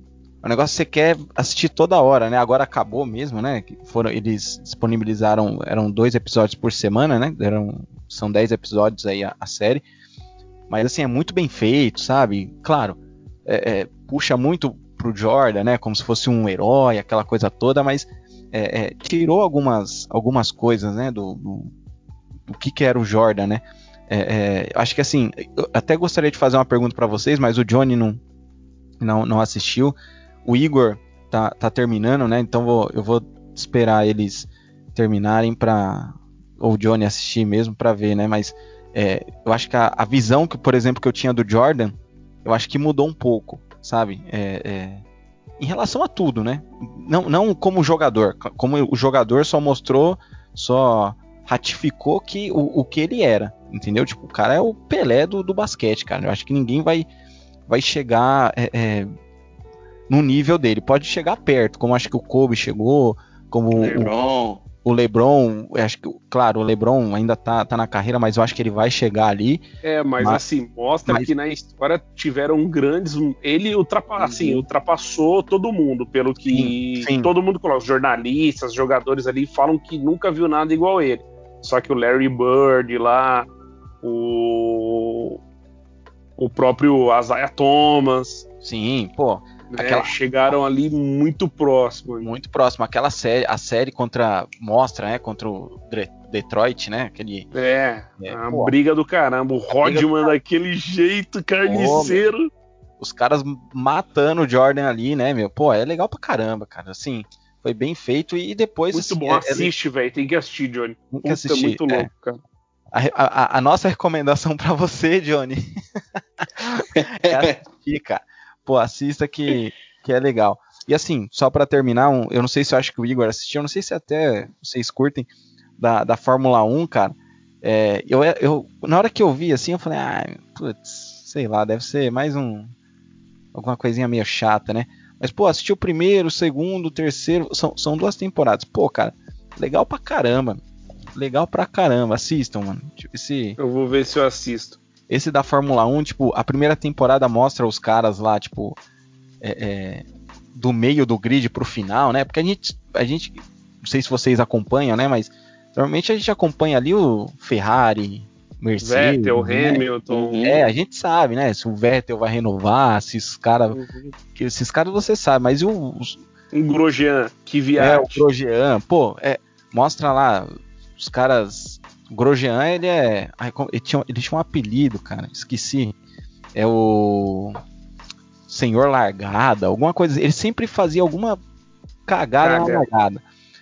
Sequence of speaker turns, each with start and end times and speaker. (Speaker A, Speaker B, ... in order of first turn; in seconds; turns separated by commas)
Speaker A: 0.4-9.8, Speaker A: 10.7-21.7, Speaker A: 22.5-28.2, Speaker A: 29.0-45.0, Speaker A: 45.6-57.1, Speaker A: 57.7-59.1, Speaker A: 60.1-64.1, Speaker B: 63.8-64.0, Speaker C: 63.8-64.6, Speaker A: 64.8-69.6, Speaker B: 69.8-83.5, Speaker C: 74.2-74.7, Speaker A: 76.5-77.3, Speaker B: 84.0-85.4, Speaker B: 86.4-88.5, Speaker A: 88.6-90.5, Speaker B: 89.7-92.3, Speaker A: 92.2-97.5, Speaker B: 97.5-102.5, Speaker A: 98.2-98.7, Speaker C: 99.9-100.3, Speaker A: 101.6-102.2, Speaker A: 103.0-109.7, Speaker B: 108.9-112.4, Speaker A: 111.1-112.1, Speaker A: 112.9-115.7, Speaker A: 116.4-132.7, Speaker C: 116.9-117.6, Speaker A: 133.5-140.6, Speaker A: 141.1-143.6, Speaker B: 143.6-144.8, Speaker A: 145.1-148.8, Speaker A: 149.4-159.8, Speaker B: 158.8-160.4, Speaker C: 160.1-160.6, Speaker A: 160.4-163.8, Speaker B: 163.7-164.1, Speaker A: 164.3-166.2, Speaker B: 166.5-168.2, Speaker A: 167.8-175.9, Speaker A: 176.5-177.6, Speaker A: 178.5-181.4, Speaker A: 182.1-183.2, Speaker B: 182.4-182.8